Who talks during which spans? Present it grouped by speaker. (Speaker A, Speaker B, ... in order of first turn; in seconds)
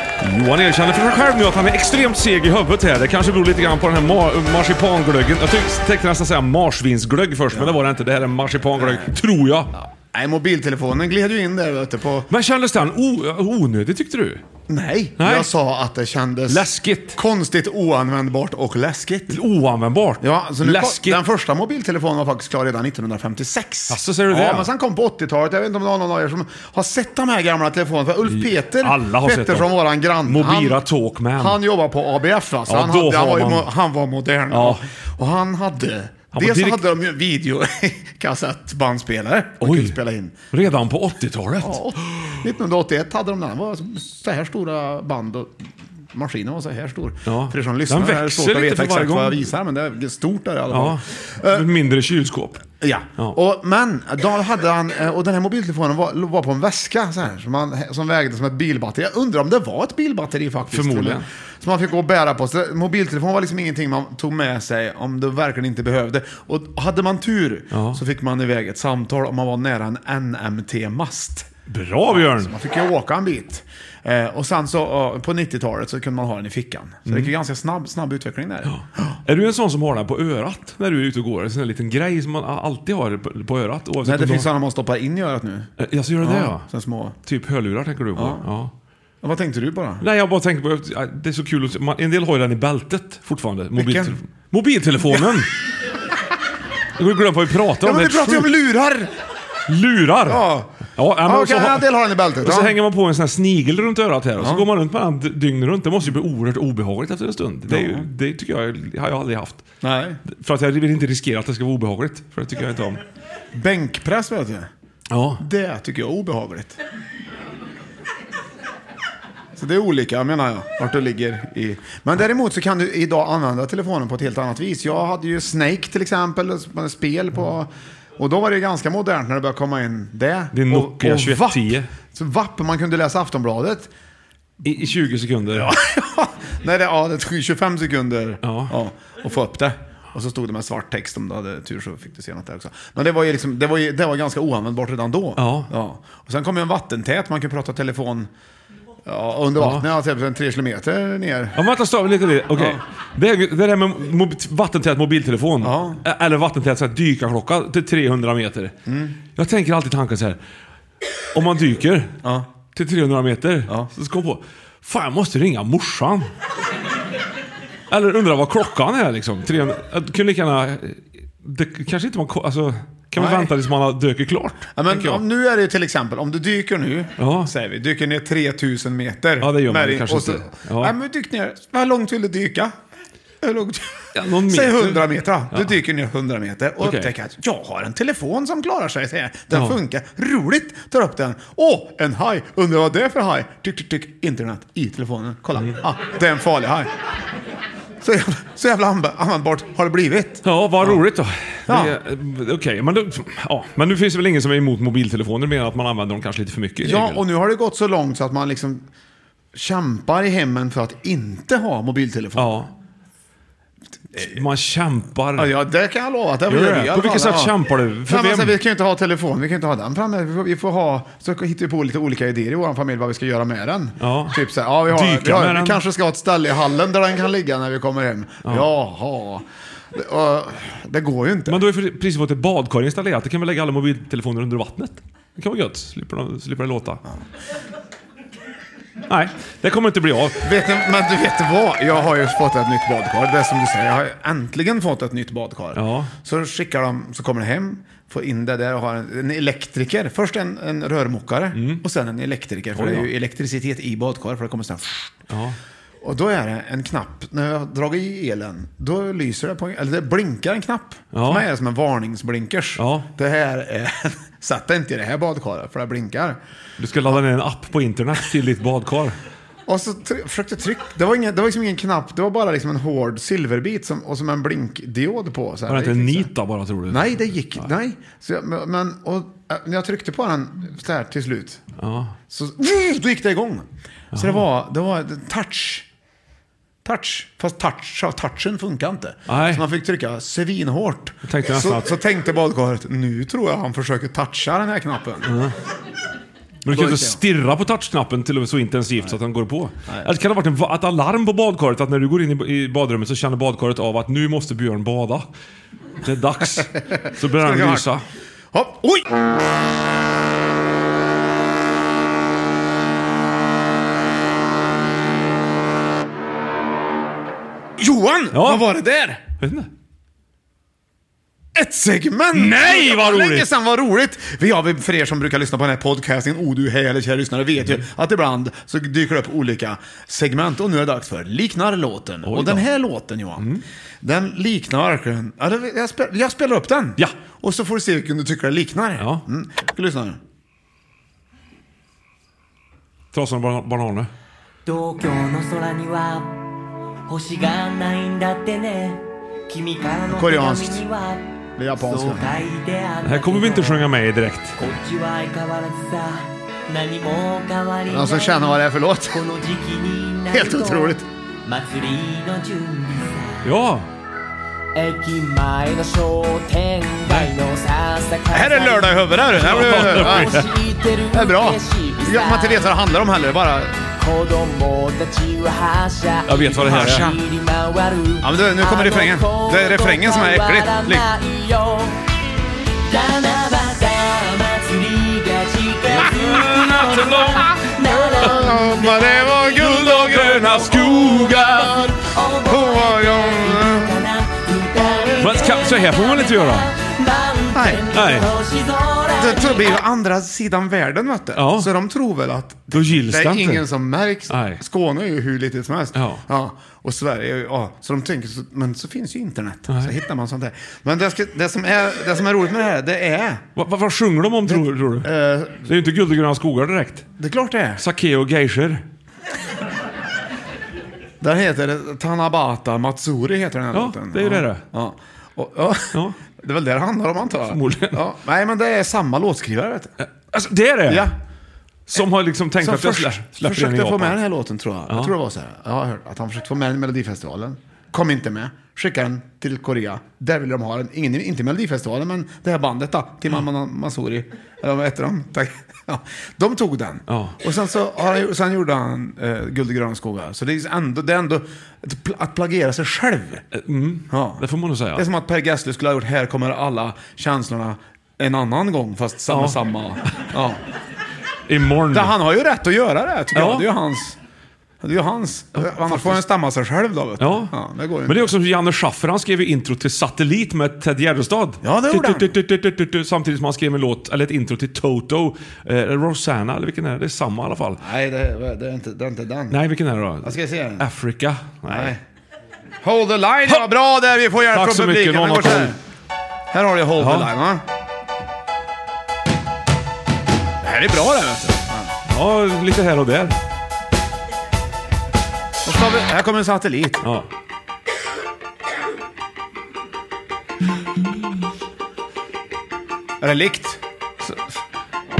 Speaker A: 0.2-9.7, 12.3-14.4, 15.2-15.5, 16.5-17.2, 19.3-21.2, 23.9-24.7, 28.3-29.7, 30.2-31.6, 32.7-33.7, 34.5-34.8, 36.3-36.8, 39.6-40.0, 40.5-41.8, 47.2-49.5, 50.7-52.6, 60.7-61.2, 67.7-68.0, 71.7-72.5, 77.0-77.3, 78.7-84.5, 85.8-86.6, 87.2-88.7, 90.0-95.5, 97.0-98.5, 99.7-101.9, 102.4-109.6, 110.3-113.0, 115.1-115.4, 130.5-131.9, 134.6-135.7, 138.4-138.7, 145.4-145.7, 149.6-149.8, 151.5-158.7, 159.3-160.4, 161.3-162.1, 162.7-166.3, 167.9-175.2, 177.2-177.5, 179.4-180.9, 184.1-185.8, 186.8-187.1, 200.4-207.2, 212.4-212.7, 214.2-215.5, 216.5-218.6, 224.0-225.8, 231.5-237.0, 239.1-240.5, 245.7-246.1, 251.5-251.8, 252.7-253.1, 255.3-255.6, 261.1-261.4, 262.8-263.1, 266.8-269.2, 275.7-277.7, 281.8-282.1, 284.1-284.4, 289.3-289.6, 291.3-291.9, 295.2-295.5, 296.6-305.3, 306.0-308.0, 318.3-318.7, 319.4-319.7, 322.3-323.5, 332.2-332.6, 343.1-344.1, 353.0-354.6, 363.4-363.9, 369.3-370.5, 376.2-377.1, 385.9-387.6, 389.5-391.7, 395.2-396.7, 397.9-398.3, 401.4-401.7, 402.7-403.6, 404.3-404.6, 405.9-406.2, 409.7-409.9, 413.6-415.1, 415.6-417.1, 417.8-418.8, 423.7-424.6, 427.5-428.0, 430.0-431.1, 431.9-434.2, 447.1-447.4, 453.5-455.1, 459.3-459.6, 461.5-462.1, 463.3-463.7, 465.6-466.2, 467.2-467.5, 468.1-477.8, 479.5-481.9, 484.5-485.8, 487.0-487.3, 492.1-493.4
Speaker B: 7.5-7.8, 8.7-9.1, 9.7-12.3, 14.7-19.4, 20.2-30.8, 31.4-40.4, 41.6-51.6, 52.8-71.5, 72.1-79.2, 84.0-85.7, 86.2-87.2, 88.2-88.4, 89.2-90.0, 93.8-94.1, 95.1-95.4, 97.8-99.1, 100.2-100.7, 101.2-102.7, 104.4-104.7, 107.7-108.0, 109.8-110.2, 113.5-114.7, 115.4-116.8, 119.5-133.9, 135.5-148.3, 149.1-151.6, 152.5-152.8, 155.6-156.0, 158.9-159.2, 173.2-173.5, 174.8-182.7, 183.4-196.9, 198.0-201.0, 201.7-201.9, 206.8-208.8, 209.5-212.5, 215.4-217.5, 218.1-231.6, 240.4-255.2, 256.0-266.4, 269.7-276.3, 276.9-281.6, 282.3-285.9, 286.8-295.3, 296.7-297.2, 306.6-307.9, 308.5-309.1, 317.8-319.2, 321.5-340.2, 350.1-350.8, 351.6-352.3, 357.9-359.2, 360.3-361.0, 368.3-370.5, 371.1-373.8, 376.6-377.2, 378.2-381.1, 388.1-394.0, 397.5-397.8, 399.1-413.4, 414.5-415.7, 417.2-417.8, 421.2-429.9, 430.9-431.1, 432.6-453.4, 454.1-460.6, 461.9-464.2, 464.8-468.3, 471.6-472.3, 477.8-479.6, 480.2-480.8, 481.7-482.0, 482.8-485.8, 486.5-487.6, 490.6-491.9, 495.6-497.0, 503.2-503.8
Speaker C: 344.6-346.3, 347.1-351.2, 351.8-353.9, 354.6-363.5, 364.7-372.7, 373.9-382.0, 382.8-389.6, 391.2-399.8